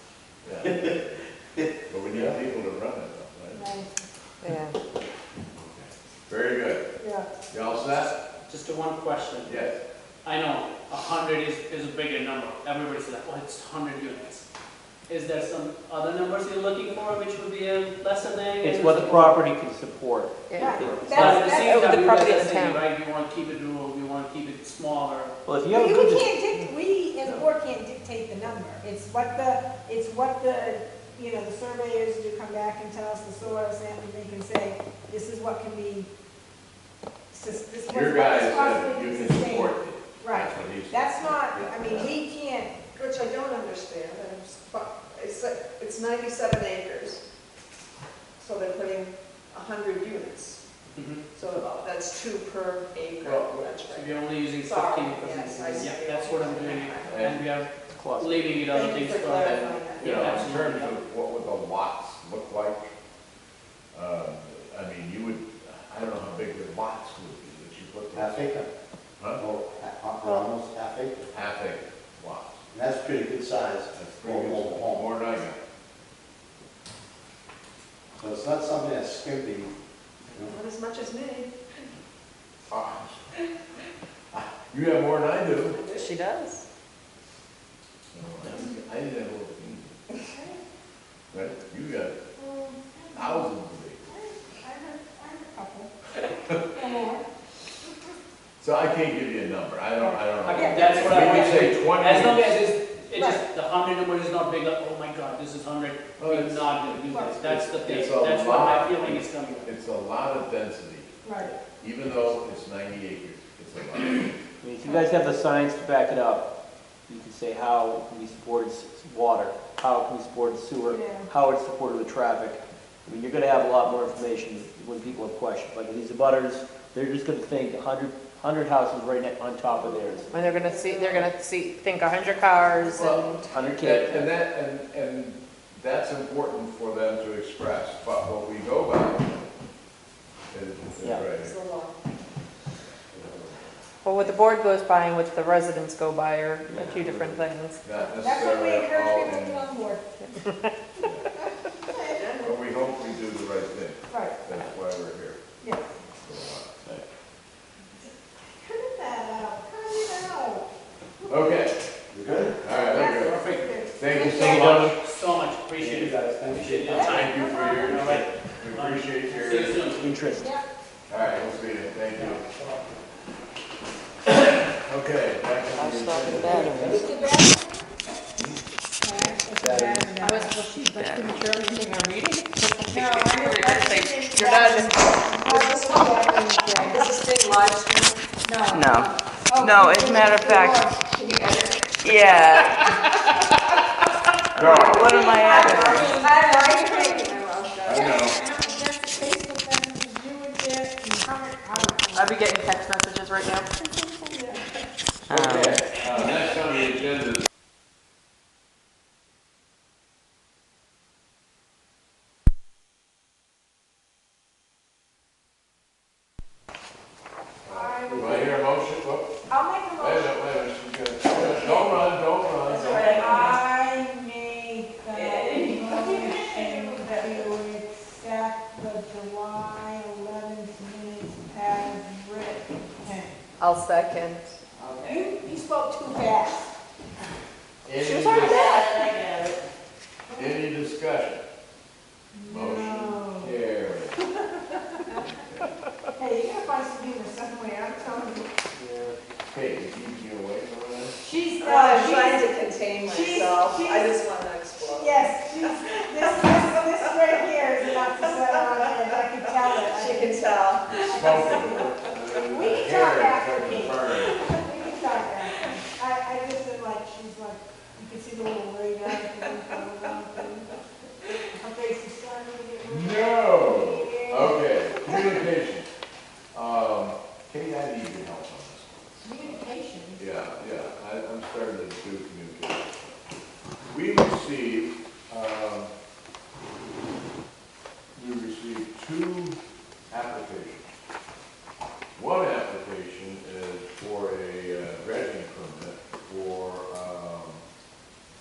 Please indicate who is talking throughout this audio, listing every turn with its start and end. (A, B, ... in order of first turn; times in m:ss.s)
0:00.4-0:01.2 A
0:00.6-0:00.9 B
0:01.6-0:02.4 B
0:01.9-0:03.6 A
0:03.5-0:04.0 C
0:04.4-0:04.7 D
0:05.6-0:06.8 A
0:07.5-0:08.1 A
0:08.5-0:09.6 E
0:09.4-0:09.8 A
0:10.2-0:14.4 E
0:15.1-0:19.4 E
0:18.6-0:21.2 F
0:20.5-0:20.8 D
0:20.6-0:21.8 C
0:21.1-0:25.3 E
0:21.5-0:22.8 D
0:25.4-0:26.3 F
0:25.7-0:36.1 C
0:37.3-0:42.9 C
0:37.9-0:42.1 A
0:42.9-0:47.2 G
0:48.4-0:50.6 G
0:50.9-0:51.2 E
0:51.3-0:57.1 G
0:53.2-0:53.7 A
0:53.9-1:01.0 E
0:57.1-0:57.5 A
0:57.9-0:58.4 F
0:58.7-1:00.4 G
1:00.0-1:02.9 A
1:03.9-1:08.5 A
1:08.1-1:08.7 B
1:09.3-1:11.3 B
1:10.2-1:10.5 D
1:11.3-1:12.6 A
1:12.7-1:15.1 B
1:13.9-1:15.6 A
1:18.2-1:19.7 B
1:20.4-1:21.8 G
1:22.7-1:23.0 A
1:24.3-1:25.8 A
1:25.7-1:26.1 G
1:25.9-1:26.6 D
1:28.1-1:30.0 A
1:30.3-1:30.6 C
1:31.3-1:32.2 A
1:32.4-1:33.5 C
1:33.2-1:34.0 A
1:34.0-1:35.9 C
1:36.6-1:37.2 C
1:38.6-1:42.6 A
1:40.0-1:41.2 C
1:40.4-1:49.7 E
1:43.2-1:43.4 C
1:46.2-1:54.4 A
1:47.1-1:47.4 C
1:51.2-1:51.5 C
1:54.6-1:56.4 F
1:57.1-2:10.3 F
2:00.9-2:01.2 C
2:10.3-2:11.2 C
2:10.3-2:13.5 D
2:12.9-2:19.4 A
2:13.5-2:14.3 F
2:20.5-2:21.5 A
2:21.2-2:22.0 G
2:23.2-2:23.5 B
2:24.0-2:27.8 D
2:26.7-2:27.0 F
2:27.0-2:29.6 A
2:28.2-2:30.3 C
2:31.6-2:32.4 C
2:32.2-2:32.5 G
2:32.4-2:35.4 A
2:34.1-2:34.4 C
2:35.6-2:36.0 C
2:36.2-2:36.7 A
2:38.0-2:40.7 C
2:41.3-2:41.8 A
2:42.1-2:42.8 B
2:42.6-2:43.4 A
2:42.8-2:44.5 C
2:42.9-2:43.7 E
2:44.0-2:45.0 A
2:44.3-2:50.2 E
2:45.8-2:47.1 B
2:46.9-2:47.8 C
2:47.0-2:49.8 A
2:50.0-2:50.5 F
2:50.4-2:50.6 C
2:51.1-2:52.4 A
2:52.1-2:52.9 B
2:54.7-2:57.0 A
2:55.7-2:57.1 H
2:56.4-2:57.1 B
2:57.0-2:57.9 C
2:59.0-3:02.0 C
2:59.6-3:00.0 B
3:00.2-3:05.5 D
3:00.9-3:01.2 H
3:02.7-3:07.1 C
3:04.4-3:08.2 G
3:08.4-3:11.8 C
3:08.7-3:10.9 H
3:12.0-3:12.8 H
3:14.6-3:15.2 A
3:14.6-3:18.1 G
3:14.6-3:16.1 H
3:15.1-3:22.4 C
3:17.8-3:18.4 A
3:22.1-3:24.3 D
3:24.3-3:24.6 C
3:25.3-3:25.8 H
3:25.3-3:27.0 A
3:37.7-3:38.6 C
3:37.7-3:39.3 A
3:39.5-3:40.4 C
3:40.0-3:43.5 A
3:42.7-3:43.5 H
3:42.9-3:53.4 C
3:45.1-3:46.4 H
3:53.6-3:54.4 D
3:54.8-3:55.2 H
3:55.0-3:56.7 C
3:57.8-3:58.8 A
3:58.1-3:59.2 D
3:58.2-3:59.6 H
4:00.3-4:01.4 A
4:02.3-4:03.6 C
4:02.5-4:04.2 A
4:06.2-4:08.6 C
4:09.5-4:11.2 A
4:11.2-4:14.2 C
4:11.6-4:21.8 G
4:14.8-4:21.9 C
4:20.9-4:24.4 A
4:22.5-4:30.7 C
4:31.5-4:35.4 C
4:32.8-4:35.9 A
4:36.5-4:39.6 A
4:39.2-4:40.2 C
4:40.2-4:42.9 A
4:43.8-4:45.9 A
4:48.2-4:49.6 A
4:50.1-4:50.9 A
4:52.2-4:57.6 A